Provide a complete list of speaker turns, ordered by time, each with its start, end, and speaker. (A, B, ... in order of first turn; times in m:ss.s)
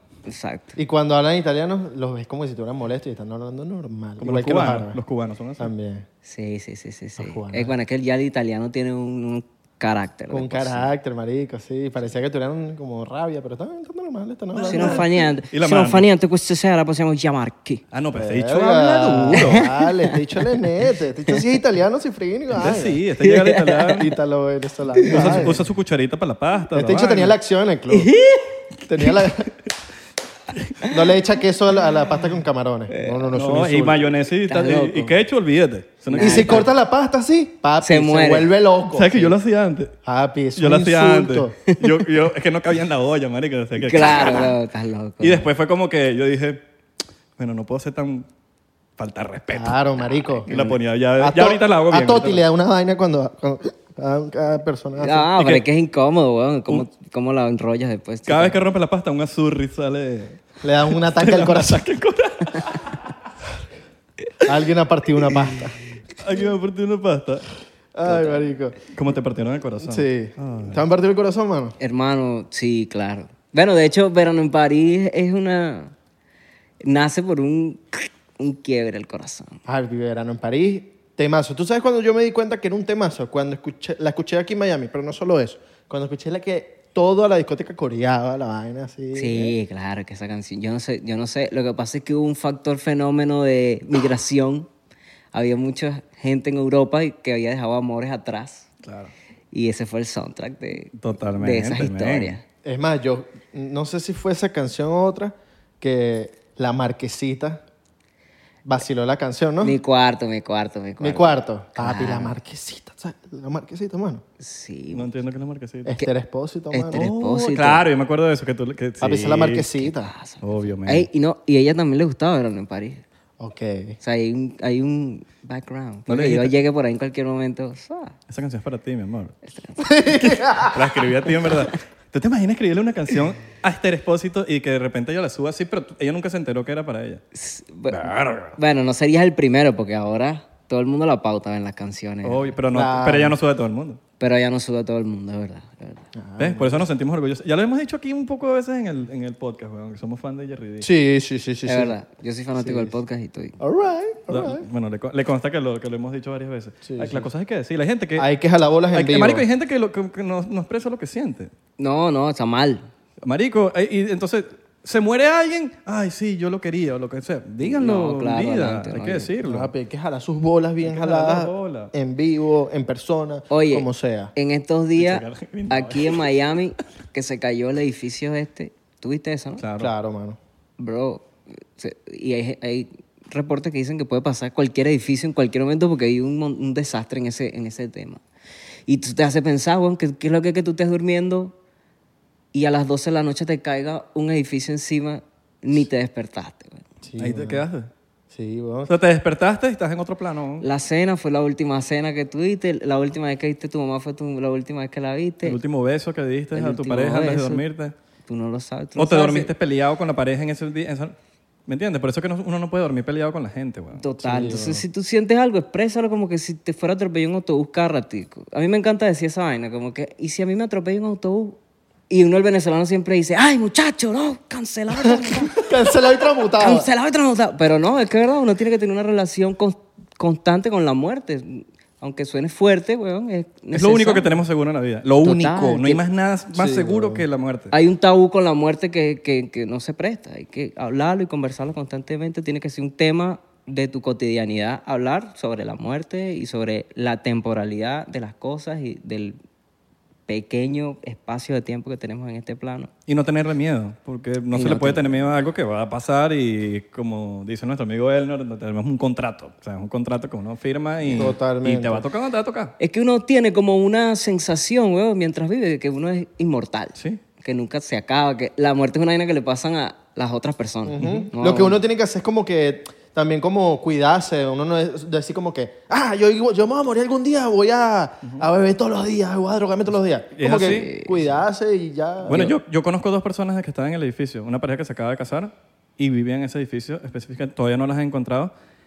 0:00.3-0:00.8 A
0:00.8-0:05.0 B
0:04.2-0:05.7 C
0:05.6-0:06.1 B
0:06.2-0:10.9 A
0:07.2-0:07.7 B
0:10.3-0:15.1 B
0:14.6-0:16.1 C
0:14.6-0:17.8 A
0:17.9-0:19.7 C
0:18.1-0:23.0 B
0:19.3-0:20.2 A
0:22.5-0:24.1 C
0:23.2-0:24.1 A
0:24.0-0:25.6 B
0:25.0-0:25.5 A
0:25.1-0:27.4 C
0:26.7-0:28.1 B
0:27.9-0:28.6 A
0:28.9-0:29.5 B
0:30.9-0:34.0 B
0:32.9-0:33.3 A
0:33.3-0:36.7 C
0:34.5-0:35.2 A
0:36.1-0:36.7 A
0:36.2-0:39.3 B
0:37.8-0:38.5 A
0:38.9-0:40.0 C
0:40.0-0:41.6 B
0:40.6-0:44.5 C
0:41.7-0:42.0 A
0:43.8-0:45.5 A
0:45.2-0:46.6 C
0:47.4-0:48.3 C
0:49.0-0:52.4 C
0:49.5-0:55.3 B
0:55.0-0:58.6 A
0:55.4-0:55.6 C
0:58.3-1:03.1 C
1:00.6-1:01.8 B
1:04.4-1:05.8 B
1:06.2-1:07.5 C
1:07.9-1:08.8 B
1:08.8-1:10.8 C
1:09.8-1:11.8 B
1:11.8-1:15.9 A
1:16.8-1:19.6 A
1:19.7-1:29.6 B
1:29.1-1:34.7 A
1:35.3-1:38.7 A
1:38.8-1:39.1 C
1:39.5-1:42.4 A
1:41.0-1:42.4 C
1:42.6-1:47.6 B
1:48.6-1:49.8 B
1:49.6-1:52.4 A
1:51.0-1:54.2 B
1:54.4-1:55.1 A
1:54.9-1:55.9 C
1:55.9-1:57.0 B
1:56.7-1:57.9 A
1:56.9-1:59.7 C
1:59.0-2:00.1 B
1:59.8-2:03.0 A
2:00.4-2:01.1 C
2:03.4-2:04.0 B
2:04.0-2:08.2 A
2:06.1-2:06.5 C
2:08.3-2:09.4 C
2:09.4-2:10.0 A
2:09.8-2:10.8 B
2:10.1-2:17.2 C
2:17.3-2:22.5 A
2:17.9-2:18.6 C
2:22.2-2:24.0 C
2:22.7-2:23.4 B
2:24.2-2:26.1 A
2:26.2-2:26.9 B
2:26.4-2:30.9 C
2:30.8-2:31.9 B
2:31.7-2:33.6 A
2:32.6-2:33.0 B
2:33.6-2:34.6 B
2:34.3-2:38.3 C
2:36.9-2:37.3 B
2:38.2-2:39.4 B
2:38.9-2:41.5 C
2:41.8-2:42.9 A
2:43.2-2:49.7 C
2:47.6-2:49.3 A
2:49.4-2:54.3 B
2:50.8-2:51.9 C
2:53.5-2:59.6 A
2:55.0-2:56.2 C
2:59.6-2:59.9 C
2:59.8-3:00.4 B
3:00.8-3:08.2 A
3:08.9-3:11.6 A
3:12.5-3:16.8 A
3:17.0-3:17.6 B
3:17.2-3:17.9 C
3:18.3-3:18.9 B
3:18.9-3:20.7 C
3:20.6-3:25.6 A
3:25.4-3:27.9 C
3:26.5-3:27.6 A
3:28.3-3:29.5 A
3:29.0-3:31.2 C
3:31.7-3:34.0 C
3:34.0-3:41.6 A
3:34.2-3:34.8 B
3:42.1-3:45.7 A
3:45.1-3:46.9 B
3:46.6-3:54.3 A
3:53.7-3:57.7 C
3:55.2-3:56.0 A
3:56.5-3:57.2 B
3:57.7-4:09.4 A
4:10.3-4:12.9 A
4:13.1-4:22.7 C
4:14.5-4:15.2 A
4:21.2-4:22.0 B
4:22.8-4:31.8 A
4:30.9-4:42.6 B
4:31.0-4:31.3 C
4:40.4-4:40.9 C
4:40.6-4:41.2 A
4:42.2-4:48.5 C